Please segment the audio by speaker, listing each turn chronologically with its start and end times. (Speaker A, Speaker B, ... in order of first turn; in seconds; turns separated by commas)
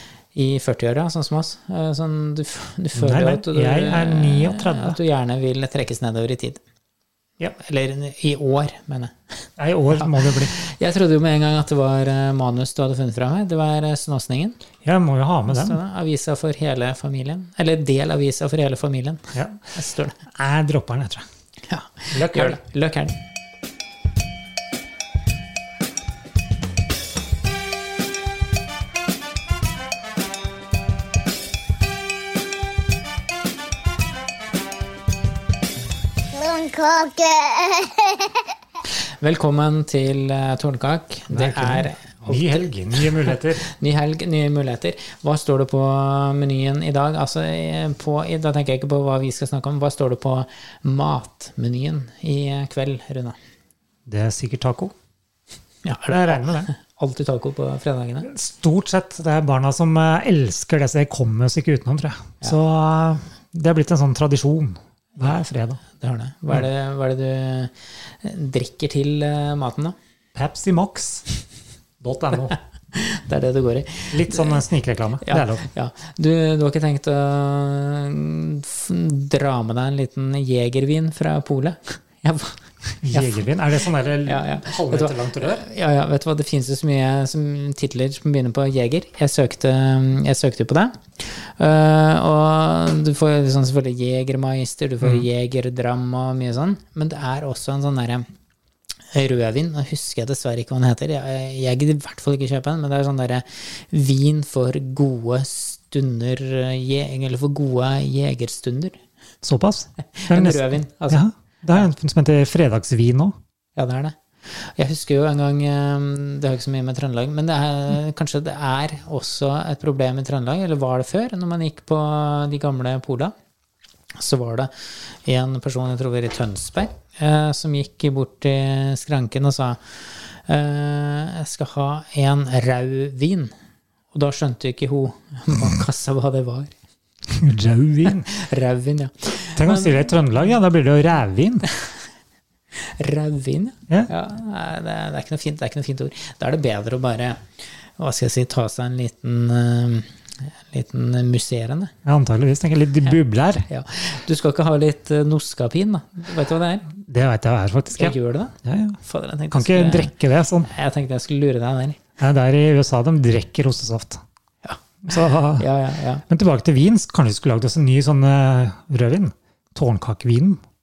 Speaker A: 0.3-6.6, Speaker B: 3.0-5.0, Speaker A: 7.4-9.1, Speaker B: 9.6-10.6, Speaker A: 9.9-14.6, Speaker B: 14.8-15.8, Speaker A: 15.5-20.2, Speaker B: 19.3-19.7, Speaker B: 20.3-21.2, Speaker A: 21.7-23.1, Speaker B: 22.1-22.6, Speaker C: 36.3-38.3, Speaker A: 39.2-53.4, Speaker B: 41.3-43.6, Speaker B: 54.1-54.9, Speaker A: 55.8-58.3, Speaker B: 56.1-56.7, Speaker B: 58.2-65.8, Speaker A: 66.0-69.9, Speaker B: 70.3-71.2, Speaker B: 72.0-72.6, Speaker A: 72.9-74.7, Speaker B: 74.1-75.7, Speaker A: 75.2-83.5, Speaker B: 83.0-85.6, Speaker A: 84.2-98.2, Speaker A: 99.1-109.0, Speaker B: 109.4-113.4, Speaker A: 110.1-111.2, Speaker A: 113.8-123.3, Speaker A: 124.2-133.5, Speaker A: 134.1-136.7, Speaker B: 137.3-138.3, Speaker A: 138.1-140.2, Speaker B: 139.6-141.7, Speaker A: 142.8-147.4, Speaker A: 148.0-151.9, Speaker B: 152.0-153.7, Speaker A: 153.7-156.9, Speaker B: 157.1-159.0, Speaker A: 157.9-162.0, Speaker B: 159.5-160.7, Speaker B: 162.2-164.2, Speaker A: 164.6-166.2, Speaker B: 165.0-165.7, Speaker B: 166.3-170.6